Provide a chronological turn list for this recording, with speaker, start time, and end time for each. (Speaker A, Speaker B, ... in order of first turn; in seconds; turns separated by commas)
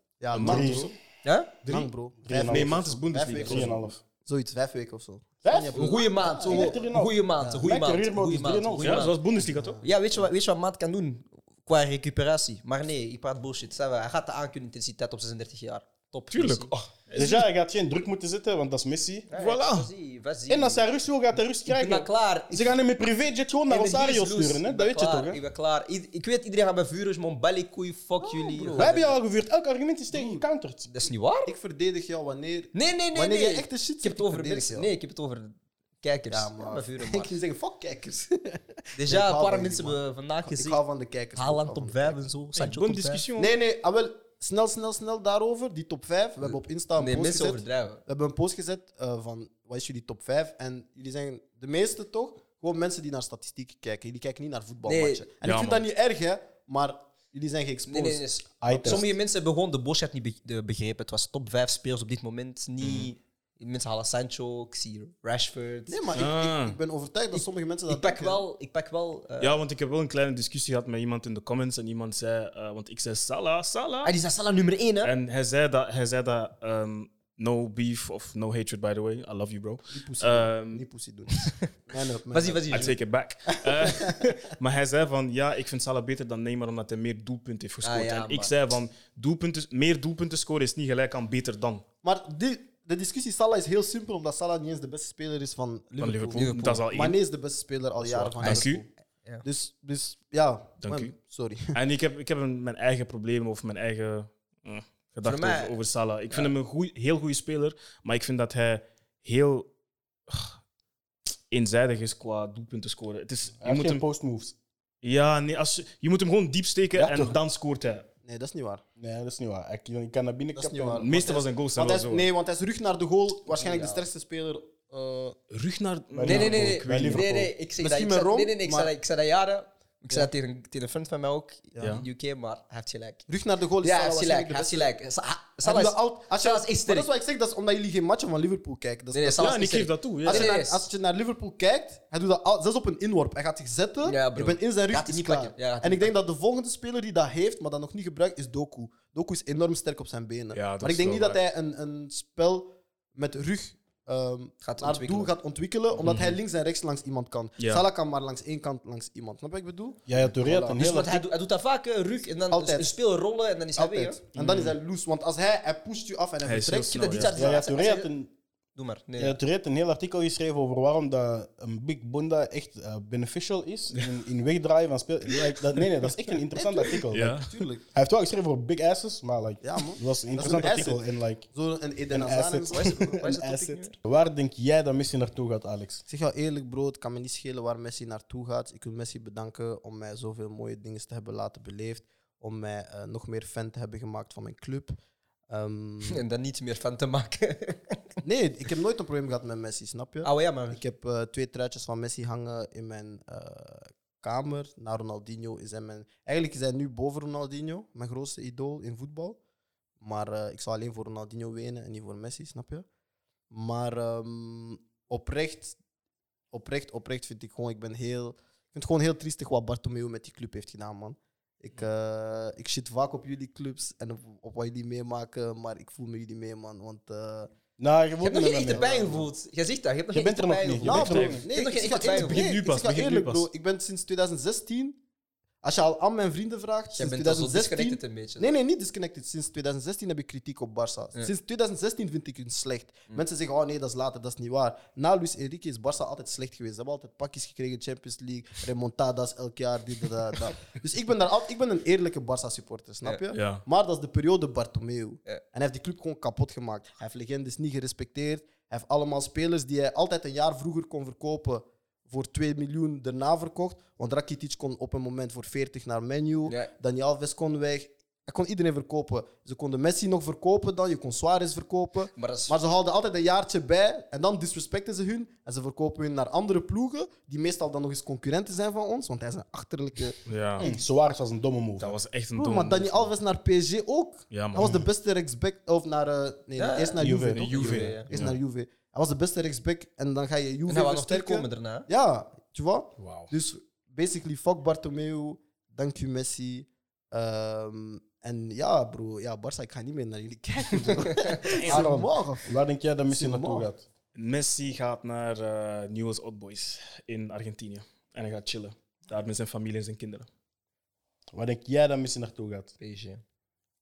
Speaker A: 0.2-0.9, Speaker B: 0.3-0.9, Speaker C: 0.4-0.9, Speaker D: 1.2-1.7, Speaker A: 1.6-6.8, Speaker C: 2.2-2.8, Speaker B: 2.5-3.9, Speaker C: 3.4-4.0, Speaker C: 5.4-9.1, Speaker D: 5.7-9.2, Speaker B: 8.8-9.8, Speaker A: 9.5-9.9, Speaker D: 9.8-16.7, Speaker B: 16.3-17.5, Speaker C: 17.1-19.3, Speaker D: 19.3-20.9, Speaker B: 19.3-19.9, Speaker C: 20.5-25.4, Speaker D: 21.6-22.8, Speaker D: 23.7-29.0, Speaker A: 28.2-29.1, Speaker C: 28.8-30.9, Speaker A: 30.1-30.4, Speaker D: 30.9-31.5, Speaker A: 31.5-34.9, Speaker D: 32.7-37.3, Speaker A: 36.3-42.2, Speaker D: 39.0-40.8, Speaker D: 41.4-43.2, Speaker B: 42.6-43.5, Speaker A: 43.4-58.2, Speaker D: 46.4-48.0, Speaker D: 54.9-55.2, Speaker B: 55.4-55.9, Speaker D: 57.9-66.0, Speaker C: 58.6-59.1, Speaker B: 62.8-63.1, Speaker A: 65.9-68.4, Speaker B: 66.1-66.8, Speaker D: 67.3-69.6, Speaker B: 69.4-74.1, Speaker D: 74.0-75.1, Speaker B: 75.0-80.8, Speaker A: 79.9-83.0, Speaker D: 81.4-81.7, Speaker D: 82.3-83.0, Speaker B: 82.7-91.8, Speaker A: 83.6-84.3, Speaker D: 87.8-88.5, Speaker A: 92.0-98.9, Speaker B: 96.0-97.2, Speaker D: 96.3-96.8, Speaker B: 98.0-98.8, Speaker A: 99.4-101.7, Speaker B: 100.8-101.1, Speaker B: 101.7-109.7, Speaker D: 105.2-105.8, Speaker B: 110.3-110.6, Speaker B: 111.5-114.0, Speaker C: 113.6-114.5, Speaker B: 115.0-118.1, Speaker C: 116.9-117.4, Speaker A: 118.2-118.8, Speaker C: 119.0-121.1, Speaker A: 120.6-125.4, Speaker B: 121.0-122.3, Speaker D: 123.5-124.0, Speaker B: 125.5-127.2, Speaker C: 126.1-127.5, Speaker D: 126.2-133.3, Speaker A: 127.8-128.9, Speaker A: 131.8-132.0, Speaker B: 131.8-132.1, Speaker A: 133.3-134.9, Speaker D: 133.8-137.1, Speaker A: 135.6-160.9, Speaker D: 139.1-140.9, Speaker B: 139.4-140.6, Speaker D: 144.0-146.1, Speaker B: 150.5-151.4, Speaker D: 154.6-155.3, Speaker B: 156.0-156.4, Speaker B: 157.6-157.8, Speaker C: 160.1-161.2, Speaker D: 160.8-164.2, Speaker A: 162.5-162.9, Speaker A: 163.8-167.3, Speaker B: 164.4-164.8, Speaker B: 166.4-167.4, Speaker D: 166.9-168.1, Speaker C: 167.4-168.3, Speaker D: 168.8-169.4, Speaker C: 169.2-177.3, Speaker A: 176.6-177.9, Speaker B: 177.1-177.5, Speaker C: 177.9-181.5, Speaker A: 179.6-183.2, Speaker C: 182.1-186.0, Speaker D: 182.7-184.0, Speaker A: 186.1-195.0, Speaker A: 195.5-196.2, Speaker D: 196.1-198.0, Speaker A: 198.2-209.4, Speaker D: 200.2-200.8, Speaker A: 210.0-212.9, Speaker A: 213.5-215.8, Speaker A: 216.5-227.5, Speaker C: 227.8-229.2, Speaker D: 228.2-232.5, Speaker A: 228.7-229.3, Speaker C: 230.1-231.4, Speaker A: 230.8-235.0, Speaker B: 230.9-231.4, Speaker B: 232.0-233.5, Speaker A: 235.6-280.8, Speaker D: 236.9-238.5, Speaker B: 253.3-253.7, Speaker D: 266.4-266.7, Speaker D: 272.1-272.6, Speaker B: 280.3-280.7, Speaker C: 280.6-281.9, Speaker B: 281.8-283.1, Speaker A: 282.4-302.5, Speaker B: 284.3-284.9, Speaker D: 286.6-288.1, Speaker C: 287.0-287.9, Speaker B: 287.3-288.4, Speaker D: 290.7-291.9, Speaker B: 293.0-293.3, Speaker B: 301.4-301.9, Speaker C: 301.6-303.8, Speaker A: 303.1-303.7, Speaker B: 304.1-310.3, Speaker C: 311.3-312.7, Speaker D: 312.8-313.2